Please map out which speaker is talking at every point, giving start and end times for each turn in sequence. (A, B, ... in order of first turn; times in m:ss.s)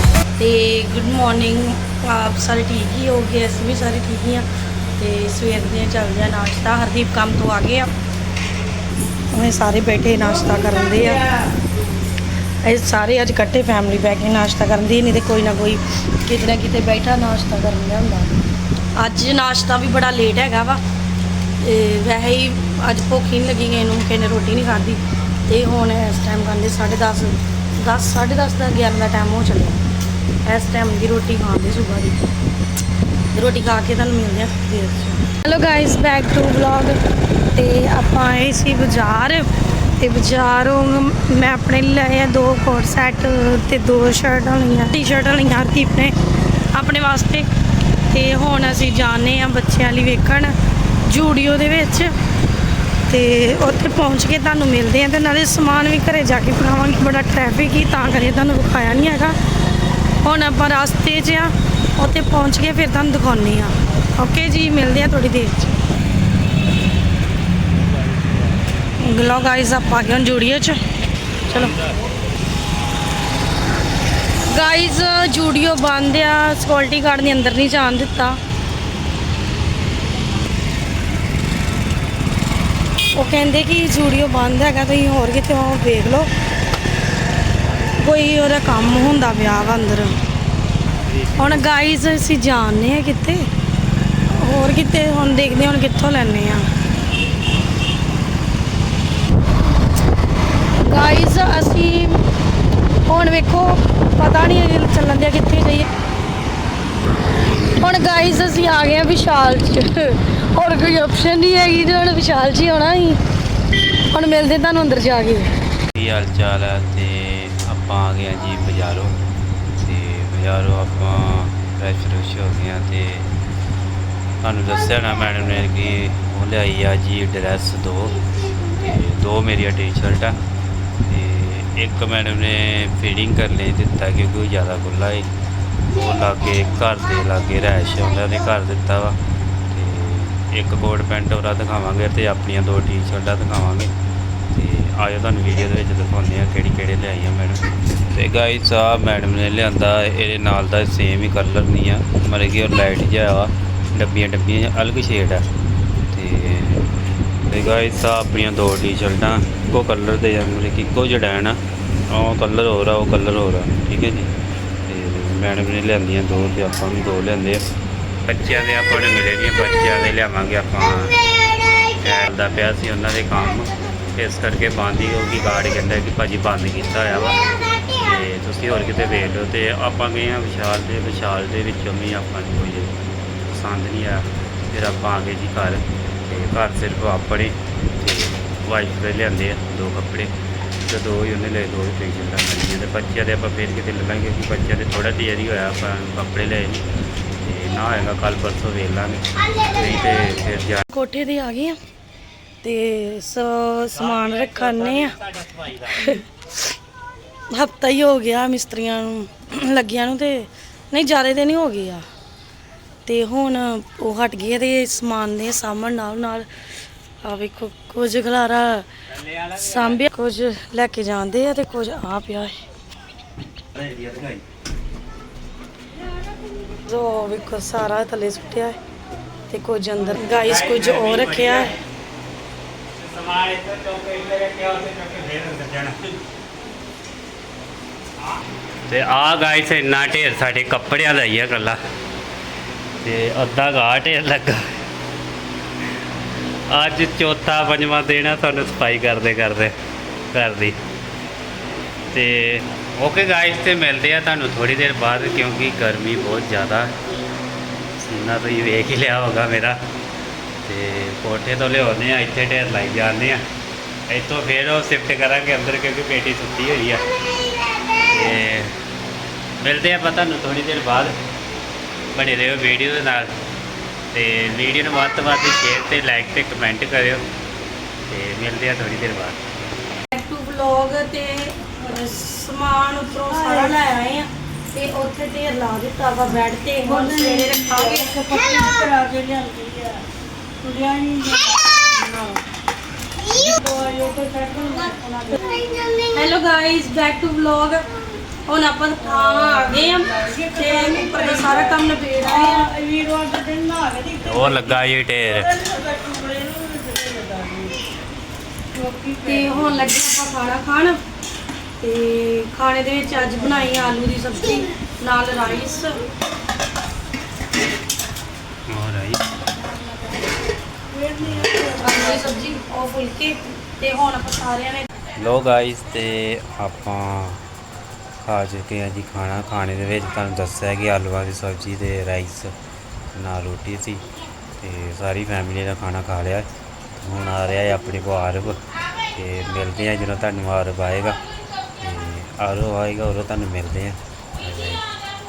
0:00.4-0:04.4 A
0:05.0-0:07.9 A
0:09.3-0:11.3 A
0:12.6-0:18.4 A
0:19.0-0:20.8 A
0:21.6-0:29.8 A
0:30.4-0:32.2 A
0:33.3-0:37.0 A
0:37.5-0:46.1 A
0:46.7-0:47.5 A
0:48.1-0:50.5 A
0:51.0-0:52.1 A
0:53.1-0:59.3 A
1:00.2-1:05.8 A
1:09.0-1:10.8 A
1:11.4-1:11.7 A
1:14.5-1:18.4 A
1:23.2-1:26.3 A
1:28.0-1:30.1 A
1:31.4-1:33.4 A
1:34.3-1:36.7 A
1:40.8-1:42.2 A
1:43.1-1:45.9 A
1:47.8-1:53.2 A
1:54.1-1:55.5 A
1:56.0-1:59.1 B
1:59.8-2:03.3 B
2:04.4-2:08.2 B
2:08.7-2:10.3 B
2:11.0-2:15.3 B
2:15.9-2:19.2 B
2:19.7-2:23.9 B
2:24.5-2:35.4 B
2:36.1-2:36.9 B
2:37.5-2:41.6 B
2:42.1-2:44.3 B
2:44.9-2:47.6 B
2:48.2-2:51.2 B
2:51.9-2:57.4 B
2:57.9-3:02.9 B
3:03.5-3:10.3 B
3:10.8-3:16.8 B
3:17.4-3:20.9 B
3:20.9-3:21.8 A
3:22.6-3:25.2 A
3:25.8-3:26.2 A
3:27.5-3:32.0 A
3:33.1-3:36.5 A
3:37.2-3:38.9 A
3:39.5-3:42.5 A
3:43.8-3:44.4 B
3:46.9-3:48.8 A
3:49.5-3:51.7 A
3:50.2-3:51.6 B
3:52.9-3:56.2 B
3:58.9-4:01.8 B
4:03.0-4:04.6 B
4:06.7-4:09.8 B
4:10.3-4:10.8 B
4:12.1-4:16.9 B
4:18.0-4:19.8 B
4:20.6-4:23.4 B
4:24.1-4:27.0 B
4:28.1-4:28.7 B
4:29.6-4:31.1 B
4:32.1-4:33.3 B
4:34.1-4:37.2 B
4:38.1-4:39.6 B
4:40.1-4:48.1 A
4:43.3-4:43.8 C
4:46.9-4:50.0 C
4:50.6-4:51.6 C
4:51.9-4:52.4 A
4:53.3-4:55.4 C
4:54.8-4:55.4 A
4:56.0-4:57.8 A
4:58.5-5:02.7 A
4:59.1-5:04.7 C
5:04.2-5:05.6 B
5:05.3-5:07.8 C
5:08.8-5:09.9 C
5:09.2-5:11.0 A
5:11.8-5:16.0 A
5:18.7-5:19.2 B
5:20.9-5:22.3 C
5:21.2-5:21.7 B
5:21.8-5:24.9 A
5:25.2-5:27.4 B
5:28.2-5:32.5 B
5:33.1-5:34.0 B
5:34.6-5:38.6 B
5:39.1-5:41.2 B
5:41.8-5:44.8 B